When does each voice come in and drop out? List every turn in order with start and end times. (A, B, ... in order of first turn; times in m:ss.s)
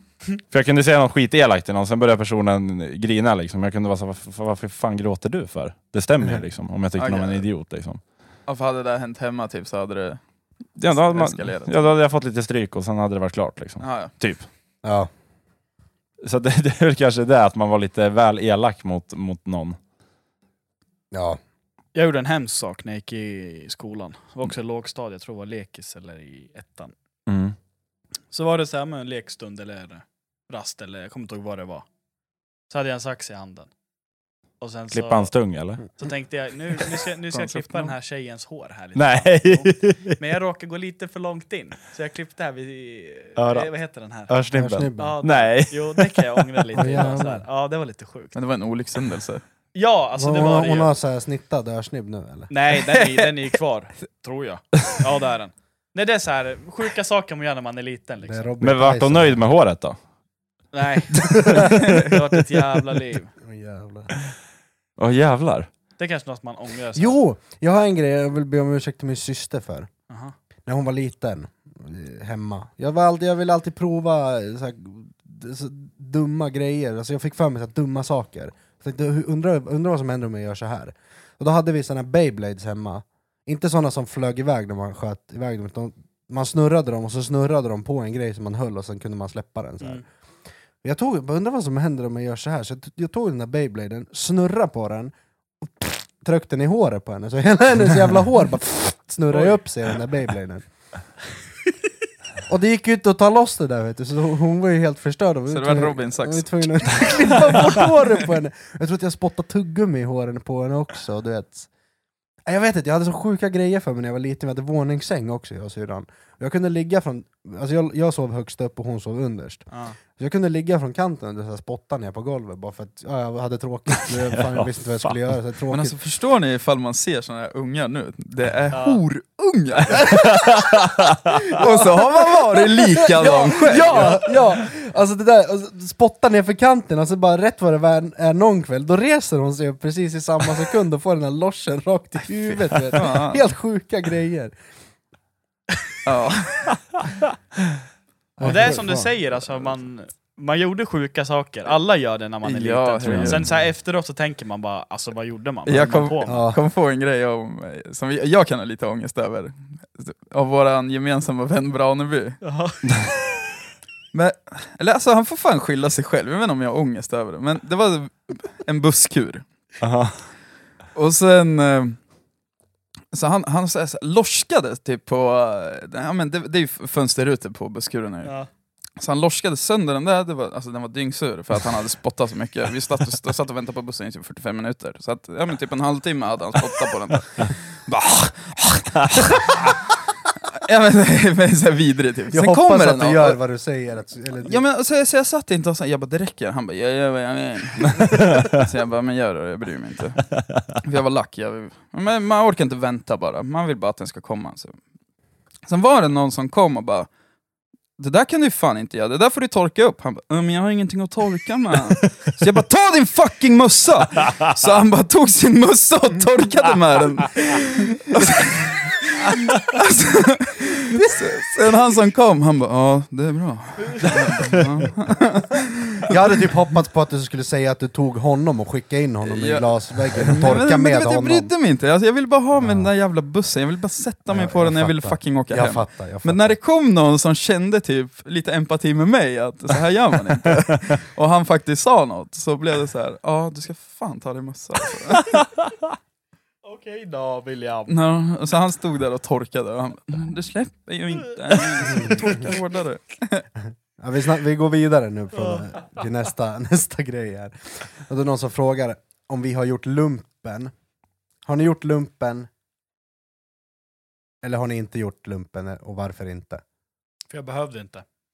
0:00.5-0:08.0 A
0:07.0-0:07.5 B
0:08.5-0:10.2 B
0:10.8-0:14.5 A
0:10.9-0:11.8 B
0:13.8-0:14.1 B
0:14.8-0:15.1 C
0:16.2-0:19.8 A
0:21.1-0:21.4 C
0:22.0-0:26.9 D
0:27.3-0:27.6 A
0:28.3-0:31.8 D
0:32.7-0:33.7 D
0:34.6-0:35.3 D
0:34.9-0:35.8 A
0:36.0-0:44.3 D
0:37.3-0:37.9 B
0:39.0-0:40.2 A
0:43.4-0:43.7 A
0:44.3-0:47.1 A
0:44.5-0:45.2 C
0:45.0-0:48.4 D
0:46.8-0:47.4 C
0:48.3-0:49.4 B
0:49.7-0:50.9 D
0:50.2-0:52.5 C
0:52.5-0:58.5 D
0:52.9-0:53.2 B
0:58.2-0:59.4 C
0:58.6-1:00.0 A
1:00.7-1:03.3 D
1:01.3-1:02.2 A
1:01.4-1:01.7 C
1:03.4-1:04.1 C
1:05.0-1:05.7 A
1:06.0-1:07.2 D
1:07.0-1:09.9 C
1:10.1-1:10.3 D
1:10.7-1:30.0 C
1:30.8-1:40.6 C
1:42.5-1:51.7 C
1:45.5-1:47.2 B
1:52.5-2:06.0 C
1:59.7-2:00.0 D
2:04.5-2:05.2 A
2:05.7-2:10.6 B
2:08.7-2:09.0 D
2:10.0-2:11.6 A
2:11.5-2:14.3 B
2:11.6-2:24.6 C
2:13.8-2:14.2 D
2:22.9-2:23.4 B
2:26.1-2:26.8 B
2:28.4-2:29.1 C
2:28.4-2:36.4 D
2:32.4-2:33.5 B
2:33.0-2:33.5 A
2:35.7-2:42.4 B
2:36.3-2:36.6 C
2:42.4-2:43.1 D
2:44.1-2:49.4 B
2:49.8-2:50.2 A
2:51.0-2:52.0 B
2:53.1-2:58.3 B
2:59.0-3:08.0 B
3:08.2-3:09.3 A
3:10.5-3:13.4 B
3:12.3-3:14.6 C
3:14.4-3:20.3 B
3:18.0-3:18.6 A
3:20.8-3:24.8 B
3:25.7-3:27.1 B
3:28.0-3:46.2 B
3:44.1-3:44.6 A
3:46.1-3:51.5 C
3:49.2-4:05.4 B
3:52.6-3:52.9 C
3:54.3-3:56.6 C
4:06.6-4:08.0 D
4:07.9-4:13.4 B
4:11.5-4:12.6 D
4:11.9-4:12.4 C
4:14.0-4:20.7 C
4:21.5-4:22.5 C
4:24.4-4:26.6 C
4:27.3-4:28.0 D